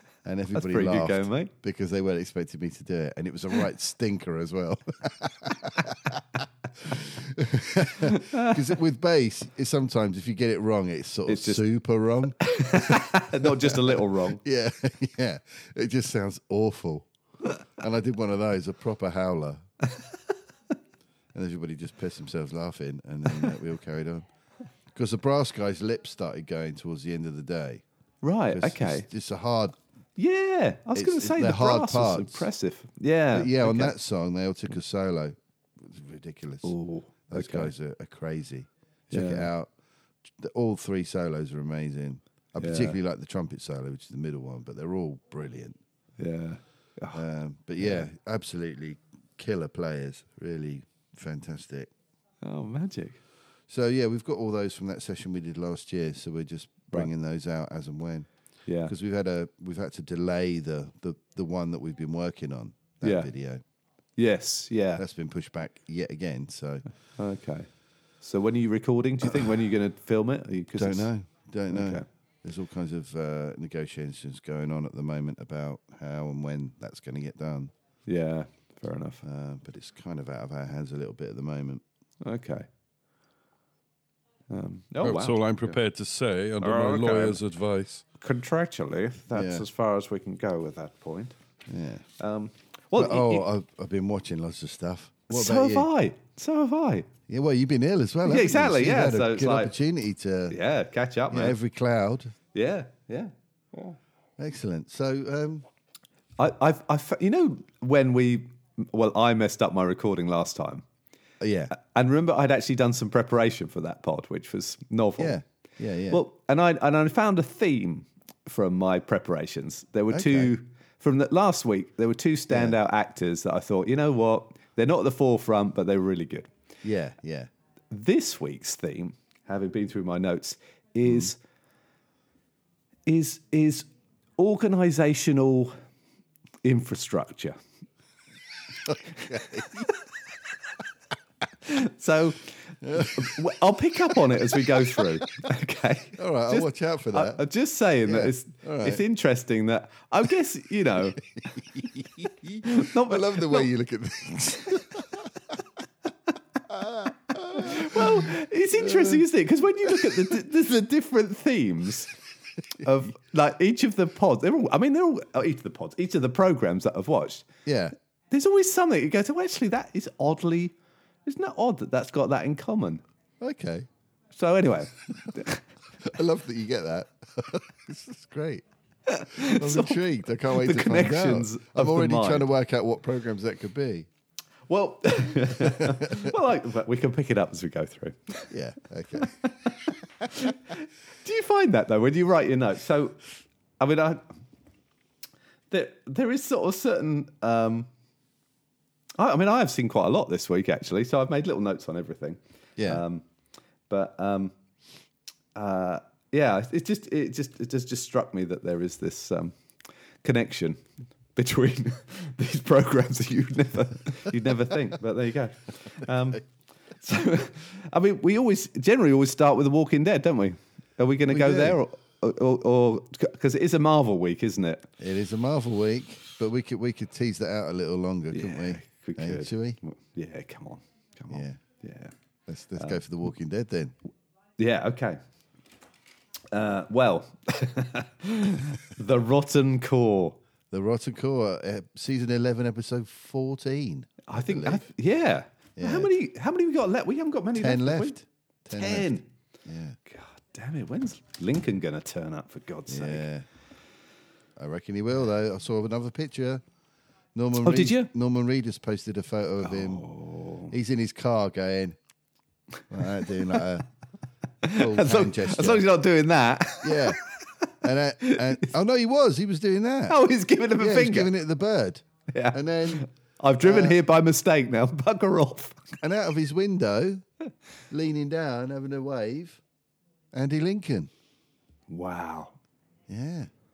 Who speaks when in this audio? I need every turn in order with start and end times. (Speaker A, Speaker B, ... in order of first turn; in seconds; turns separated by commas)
Speaker A: 0.2-17.1, Speaker B: 0.5-1.5, Speaker B: 8.0-8.6, Speaker B: 11.3-11.6, Speaker B: 12.4-14.4, Speaker A: 17.7-19.6, Speaker A: 21.3-24.3, Speaker A: 24.9-27.8, Speaker B: 28.2-29.1, Speaker A: 28.5-29.8, Speaker B: 30.2-34.0, Speaker A: 30.9-32.5, Speaker A: 33.3-36.7, Speaker B: 36.6-37.7, Speaker A: 37.3-39.7, Speaker B: 39.1-39.5, Speaker A: 40.3-45.8, Speaker B: 42.6-43.0, Speaker B: 46.2-47.2, Speaker A: 47.1-51.9, Speaker B: 52.4-53.2, Speaker A: 53.7-58.3, Speaker B: 58.7-58.9, Speaker A: 58.9-63.6, Speaker B: 63.0-63.3, Speaker B: 64.2-65.0, Speaker A: 65.0-66.8, Speaker B: 67.2-67.7, Speaker B: 68.2-71.1, Speaker A: 70.8-77.7, Speaker B: 71.7-72.1, Speaker B: 78.1-79.2, Speaker A: 79.2-81.8, Speaker B: 82.2-82.7, Speaker B: 84.5-85.5, Speaker C: 85.0-88.0, Speaker B: 86.6-87.3, Speaker A: 86.6-87.3, Speaker B: 88.2-91.4, Speaker A: 89.3-89.7, Speaker A: 91.7-92.0, Speaker B: 92.2-93.5, Speaker A: 93.0-95.9, Speaker B: 95.3-97.1, Speaker A: 97.3-100.6, Speaker B: 98.2-99.7, Speaker B: 100.5-101.6, Speaker A: 101.3-102.3, Speaker B: 102.5-103.9, Speaker A: 104.4-105.7, Speaker B: 106.4-110.8, Speaker A: 111.4-111.7, Speaker B: 111.7-115.4, Speaker A: 115.2-116.2, Speaker B: 116.1-126.5, Speaker A: 120.1-120.5, Speaker A: 122.5-122.8, Speaker A: 126.8-127.5, Speaker B: 127.9-131.4, Speaker A: 131.1-131.3, Speaker B: 133.1-133.9, Speaker B: 134.4-135.8, Speaker B: 136.6-137.6, Speaker A: 138.9-139.9, Speaker B: 139.2-139.4, Speaker B: 141.6-151.2, Speaker A: 142.8-143.4, Speaker A: 146.2-147.4, Speaker A: 148.1-149.0, Speaker A: 151.4-155.3, Speaker B: 152.6-153.7, Speaker A: 156.7-159.2, Speaker B: 157.5-162.1, Speaker A: 159.8-160.3, Speaker B: 162.8-167.5, Speaker A: 167.7-167.9, Speaker B: 168.3-170.8, Speaker B: 171.3-173.0, Speaker A: 173.4-173.9, Speaker B: 174.3-175.6, Speaker A: 176.0-178.6, Speaker B: 179.1-182.5, Speaker A: 179.3-184.1, Speaker B: 184.7-188.5, Speaker A: 185.5-186.3, Speaker A: 188.5-189.3, Speaker B: 189.2-193.3, Speaker B: 193.8-194.3, Speaker B: 195.7-197.9, Speaker B: 199.2-203.2, Speaker A: 202.8-203.0, Speaker B: 203.9-204.6, Speaker B: 205.6-209.6, Speaker B: 210.2-210.8, Speaker B: 211.3-216.5, Speaker B: 217.0-224.9, Speaker A: 221.3-221.8, Speaker A: 225.0-229.8, Speaker B: 228.3-232.1, Speaker A: 231.3-231.6, Speaker A: 232.5-233.9, Speaker B: 234.6-235.2, Speaker B: 236.5-240.4, Speaker A: 240.7-244.9, Speaker B: 244.3-248.2, Speaker A: 245.8-246.1, Speaker A: 247.6-250.0, Speaker B: 248.7-249.3, Speaker B: 250.1-253.3, Speaker A: 252.9-253.5, Speaker A: 254.6-256.6, Speaker A: 257.4-260.1, Speaker B: 257.6-258.1, Speaker B: 259.6-260.7, Speaker A: 260.7-262.0, Speaker A: 262.9-263.9, Speaker B: 264.6-267.7, Speaker A: 264.7-265.9, Speaker A: 266.8-267.2, Speaker A: 267.8-270.2, Speaker B: 268.2-268.7, Speaker B: 270.1-271.3, Speaker A: 270.8-273.1, Speaker B: 272.3-275.9, Speaker A: 273.6-274.0, Speaker A: 276.0-277.2, Speaker A: 277.9-279.6, Speaker A: 280.3-281.1, Speaker B: 281.9-282.6, Speaker A: 283.1-283.5